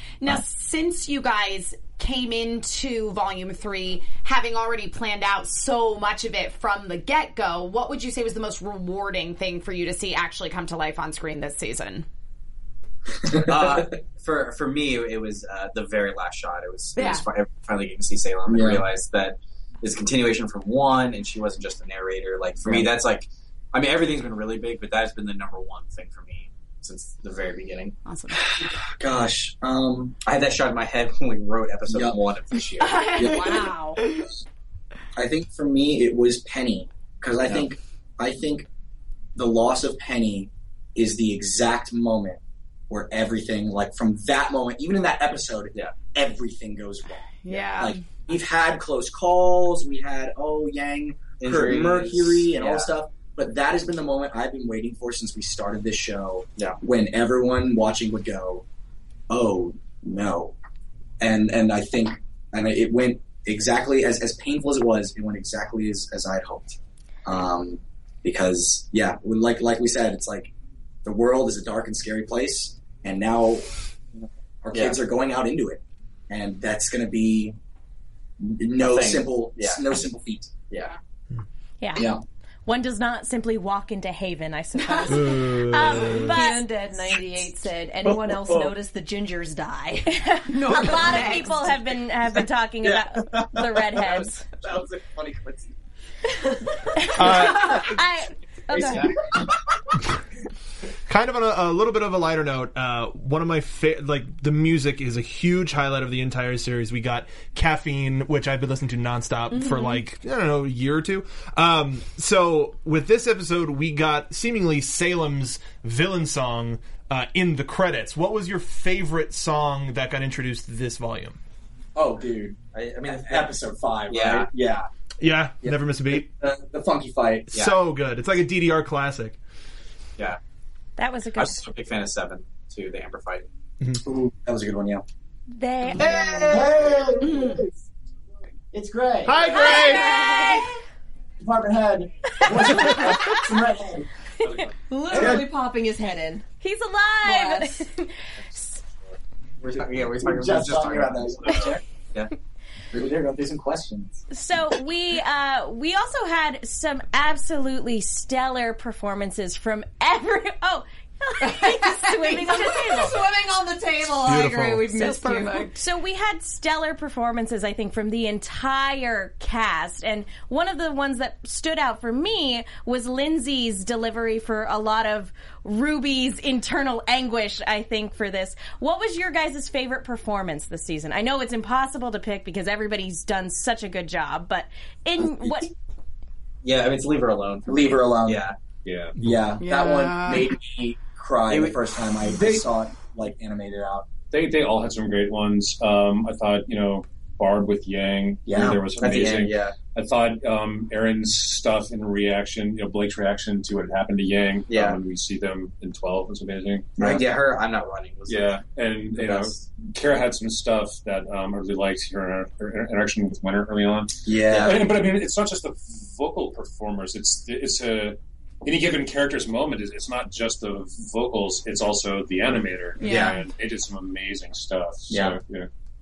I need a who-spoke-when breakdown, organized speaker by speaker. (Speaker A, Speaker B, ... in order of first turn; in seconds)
Speaker A: 0.2-12.1, 16.9-17.2, 28.0-28.4, 32.8-34.3, 47.4-48.0, 84.8-85.2, 109.5-110.0, 137.2-137.6, 164.9-165.7, 189.6-190.5, 223.0-223.4
Speaker B: 13.2-13.8, 18.5-18.8, 22.6-22.9, 28.4-30.2, 31.9-32.2, 33.1-33.6, 35.1-38.7, 39.3-58.6, 59.3-60.5, 61.2-70.5, 71.0-77.5, 78.4-80.5, 82.0-82.2, 88.0-88.7, 92.8-95.7, 97.6-97.9, 98.7-99.9, 122.0-124.9, 125.6-127.5, 134.0-135.0, 136.0-137.8, 138.7-139.6, 141.4-144.1, 145.1-145.5, 150.1-151.8, 152.9-154.2, 185.2-185.7, 187.7-188.4, 189.2-194.1, 198.4-199.3, 207.0-207.2, 214.2-214.9, 225.1-225.4
Speaker C: 13.3-27.9, 30.2-33.1, 51.4-52.9, 74.7-75.0, 78.8-79.8, 80.7-81.0, 98.8-99.1, 122.7-123.5, 124.1-124.5, 131.3-133.4, 149.6-152.3, 186.6-188.6, 191.5-191.8, 192.3-192.6, 198.5-199.8, 204.7-205.0, 207.0-208.6, 209.1-209.6, 214.5-214.8, 223.0-223.4
Speaker D: 33.2-34.0, 86.0-91.8, 139.7-140.7, 144.9-146.4, 147.2-147.8, 161.4-165.7
Speaker E: 81.8-82.1, 82.7-86.7, 90.1-94.5, 96.9-99.1, 131.0-131.6, 135.5-136.7, 139.5-140.7, 146.6-148.8, 154.3-163.2, 165.7-185.7
Speaker F: 85.1-86.3, 97.1-97.9, 101.1-121.4, 125.2-126.3, 127.5-129.4, 139.2-140.2, 164.2-165.0
Speaker G: 188.8-189.2, 194.3-206.9, 208.3-225.7